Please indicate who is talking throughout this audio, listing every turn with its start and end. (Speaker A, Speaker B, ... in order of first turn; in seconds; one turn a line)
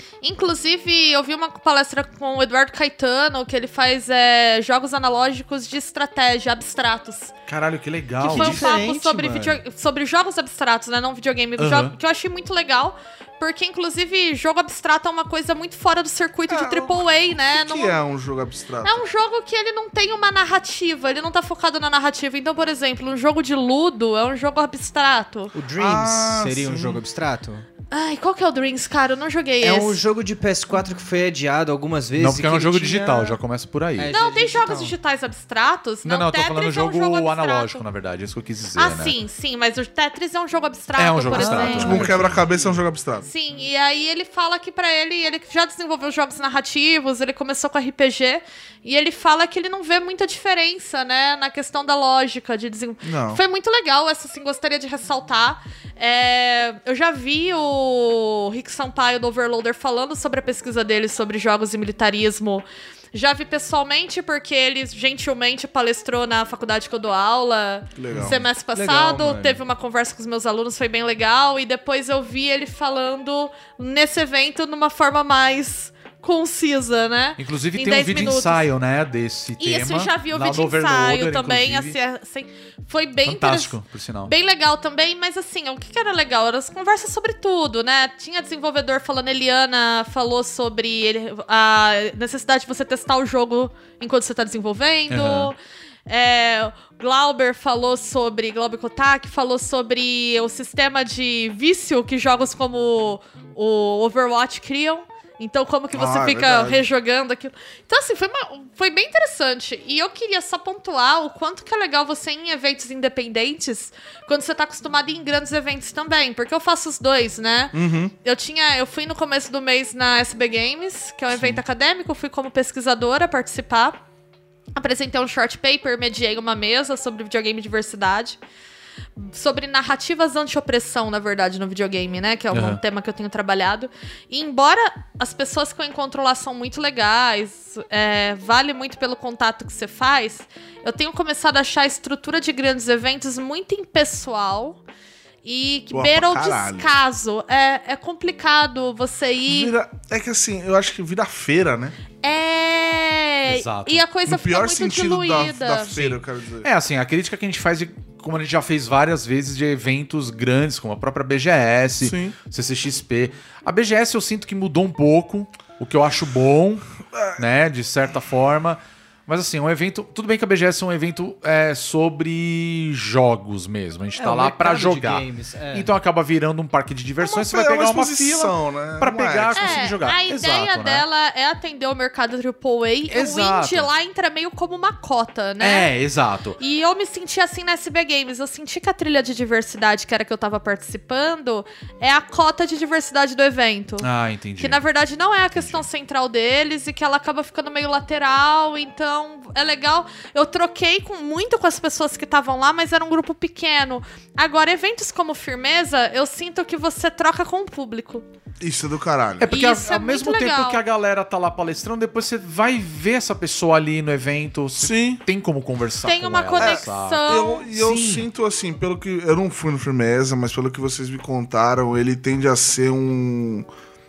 Speaker A: 0.2-7.3
Speaker B: 7.5-8.7
Speaker C: 8.2-9.6
Speaker A: 8.3-18.0
Speaker B: 11.6-11.9
Speaker D: 16.5-19.0
Speaker A: 18.8-25.5
Speaker C: 25.5-27.7
Speaker D: 25.8-27.0
Speaker A: 27.9-30.0
Speaker C: 29.6-33.4
Speaker B: 32.2-34.1
Speaker C: 34.0-35.0
Speaker A: 34.1-37.8
Speaker B: 36.0-39.1
Speaker A: 38.8-42.1
Speaker B: 41.0-42.5
Speaker C: 41.3-42.1
Speaker D: 41.6-43.3
Speaker A: 43.2-78.7
Speaker D: 53.0-53.4
Speaker D: 68.0-68.4
Speaker C: 68.7-69.6
Speaker B: 77.4-82.0
Speaker A: 79.6-124.0
Speaker B: 83.2-84.3
Speaker B: 95.1-95.5
Speaker D: 105.9-106.8
Speaker D: 117.7-118.1
Speaker A: 124.8-128.4
Speaker A: 129.2-144.8
Speaker B: 132.5-132.8
Speaker A: 145.4-149.7
Speaker D: 145.9-146.9
Speaker D: 149.5-152.0
Speaker A: 152.2-156.1
Speaker B: 153.5-154.1
Speaker D: 154.3-156.7
Speaker B: 155.9-181.1
Speaker D: 162.0-162.4
Speaker D: 167.1-167.4
Speaker C: 174.2-175.9
Speaker D: 177.2-179.9
Speaker A: 179.6-185.9
Speaker B: 183.1-183.9
Speaker B: 185.6-186.6
Speaker A: 186.6-194.1
Speaker B: 194.0-194.8
Speaker A: 194.6-208.2
Speaker B: 195.5-195.8
Speaker D: 208.6-209.5
Speaker B: 209.4-218.3
Speaker A: 209.5-210.8
Speaker D: 214.8-215.2
Speaker A: 216.1-217.7
Speaker D: 216.6-223.7